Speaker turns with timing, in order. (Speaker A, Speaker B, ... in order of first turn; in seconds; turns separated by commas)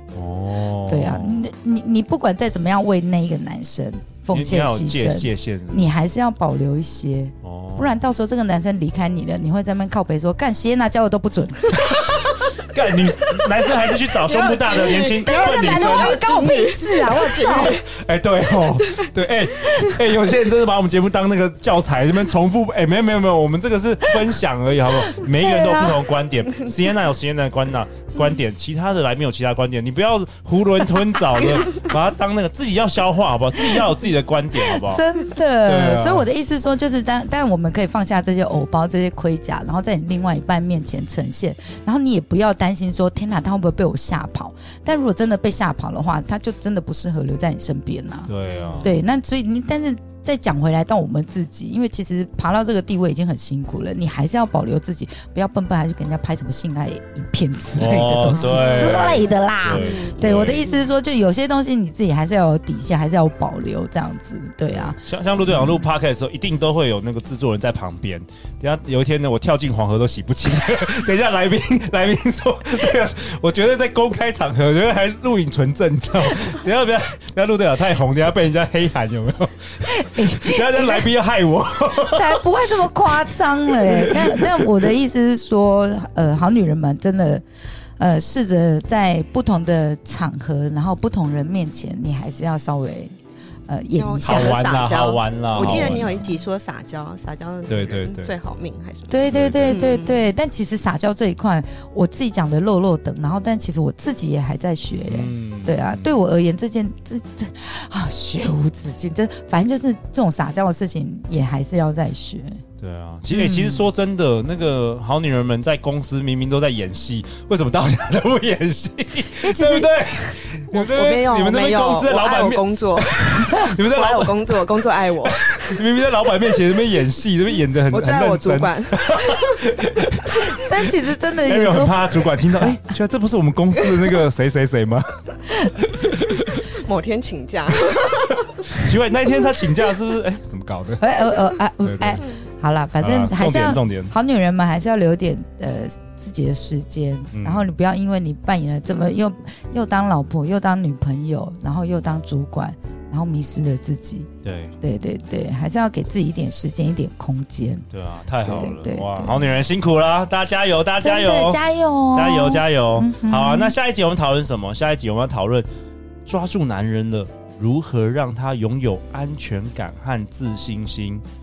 Speaker A: 0.1-1.5, Speaker B: 0.9-12.1, Speaker A: 4.3-5.9, Speaker A: 7.4-8.0, Speaker A: 12.0-16.2, Speaker C: 14.2-17.9, Speaker B: 14.9-17.8, Speaker A: 17.8-35.0, Speaker B: 25.4-25.9, Speaker C: 25.4-25.9, Speaker B: 34.7-65.8, Speaker A: 35.6-36.3, Speaker A: 48.3-48.9, Speaker A: 57.8-60.7, Speaker C: 58.4-60.8, Speaker A: 64.7-82.4, Speaker B: 79.9-81.1, Speaker B: 82.0-87.4, Speaker A: 83.8-84.6, Speaker B: 88.0-93.2, Speaker B: 93.7-94.7, Speaker C: 93.9-100.3, Speaker A: 94.2-96.2, Speaker B: 95.6-96.4, Speaker A: 97.7-98.3, Speaker B: 99.1-112.6, Speaker A: 99.3-99.9, Speaker A: 105.1-106.2, Speaker A: 112.8-124.5, Speaker B: 113.3-113.8, Speaker B: 119.4-120.3, Speaker C: 120.7-125.8, Speaker A: 125.3-130.8, Speaker C: 127.9-129.6, Speaker B: 130.3-132.8, Speaker A: 131.4-136.6, Speaker C: 136.6-138.7, Speaker A: 138.7-141.2, Speaker B: 141.0-154.3, Speaker A: 141.8-142.2, Speaker A: 143.0-144.1, Speaker A: 147.3-147.7, Speaker A: 154.4-154.8, Speaker B: 154.8-157.9, Speaker A: 157.9-161.6, Speaker B: 158.4-159.5, Speaker B: 161.0-163.8, Speaker A: 162.1-165.7, Speaker A: 166.3-171.2